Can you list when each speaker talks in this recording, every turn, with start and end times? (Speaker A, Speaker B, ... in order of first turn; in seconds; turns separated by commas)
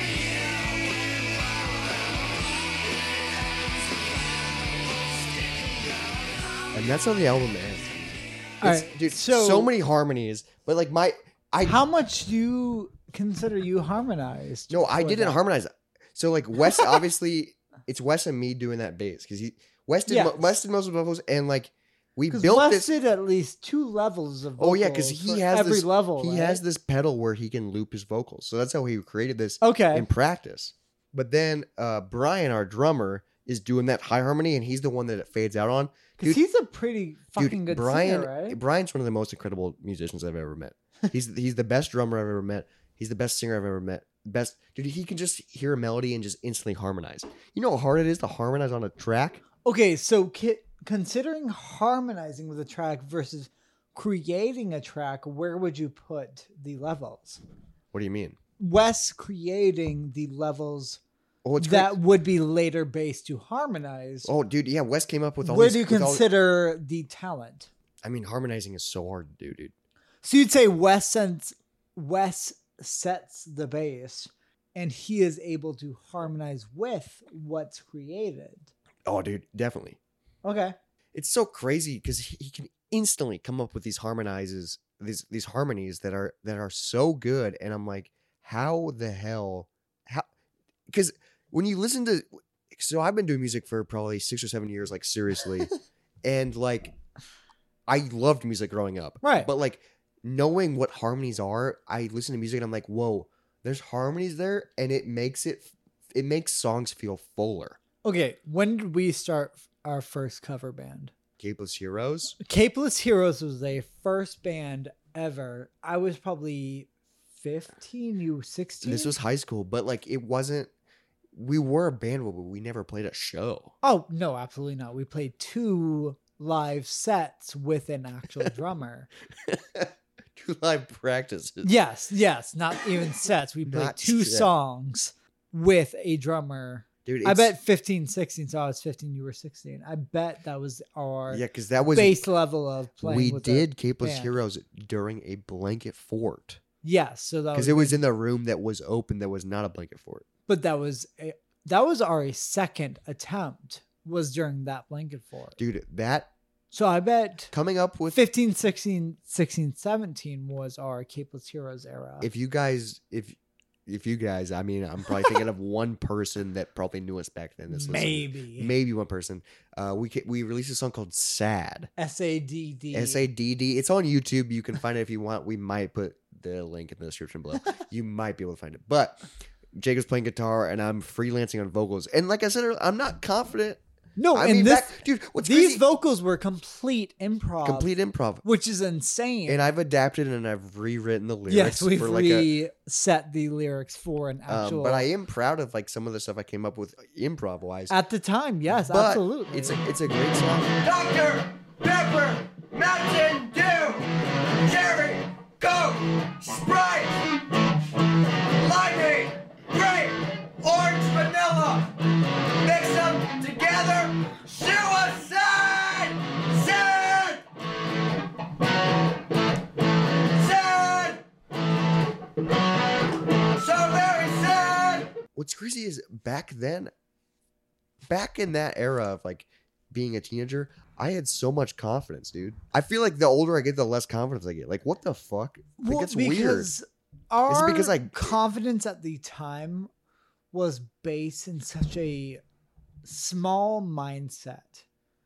Speaker A: 6.7-11.8, Speaker B: 8.6-9.7, Speaker B: 11.6-15.4, Speaker A: 14.7-22.9, Speaker B: 20.1-20.4, Speaker B: 22.3-26.6, Speaker A: 24.6-36.4, Speaker B: 29.6-30.1, Speaker B: 36.2-38.6, Speaker A: 37.4-49.4, Speaker B: 49.6-57.4, Speaker A: 57.9-58.4, Speaker B: 58.6-61.0, Speaker A: 61.4-62.0, Speaker B: 61.6-64.3, Speaker A: 64.2-66.2, Speaker B: 65.4-67.7, Speaker A: 68.0-69.7, Speaker B: 70.2-78.7, Speaker A: 79.0-80.0, Speaker B: 80.4-80.8, Speaker A: 81.1-90.3, Speaker A: 90.9-95.7, Speaker A: 96.2-96.9, Speaker A: 97.9-107.8, Speaker B: 99.2-99.5, Speaker B: 108.0-111.1, Speaker A: 111.4-112.3, Speaker B: 112.4-119.1, Speaker A: 118.8-120.7, Speaker A: 121.3-123.7, Speaker B: 123.8-129.1, Speaker A: 129.4-131.7, Speaker B: 131.6-144.3, Speaker A: 133.6-134.5, Speaker A: 137.1-137.5, Speaker A: 141.3-142.2, Speaker A: 143.0-146.6, Speaker B: 146.8-148.0, Speaker A: 147.5-150.2, Speaker B: 150.5-155.6, Speaker A: 155.6-156.3, Speaker B: 156.7-157.5, Speaker A: 157.5-158.2, Speaker B: 158.1-162.3, Speaker A: 162.2-171.9, Speaker B: 167.7-168.7, Speaker B: 172.0-173.2, Speaker A: 172.9-179.2, Speaker A: 179.8-183.8, Speaker B: 184.2-187.9, Speaker A: 184.3-185.8, Speaker A: 187.6-188.4, Speaker B: 188.4-189.6, Speaker A: 189.4-192.5, Speaker B: 191.5-195.1, Speaker A: 194.5-197.9, Speaker B: 197.9-199.8, Speaker A: 198.8-200.8, Speaker C: 200.8-207.3, Speaker C: 208.6-211.9, Speaker C: 212.6-217.4, Speaker C: 220.3-221.2, Speaker C: 223.5-225.1, Speaker A: 225.3-226.9, Speaker A: 228.1-236.7, Speaker B: 235.8-239.9, Speaker A: 237.5-238.4, Speaker B: 240.5-242.4, Speaker B: 243.0-244.8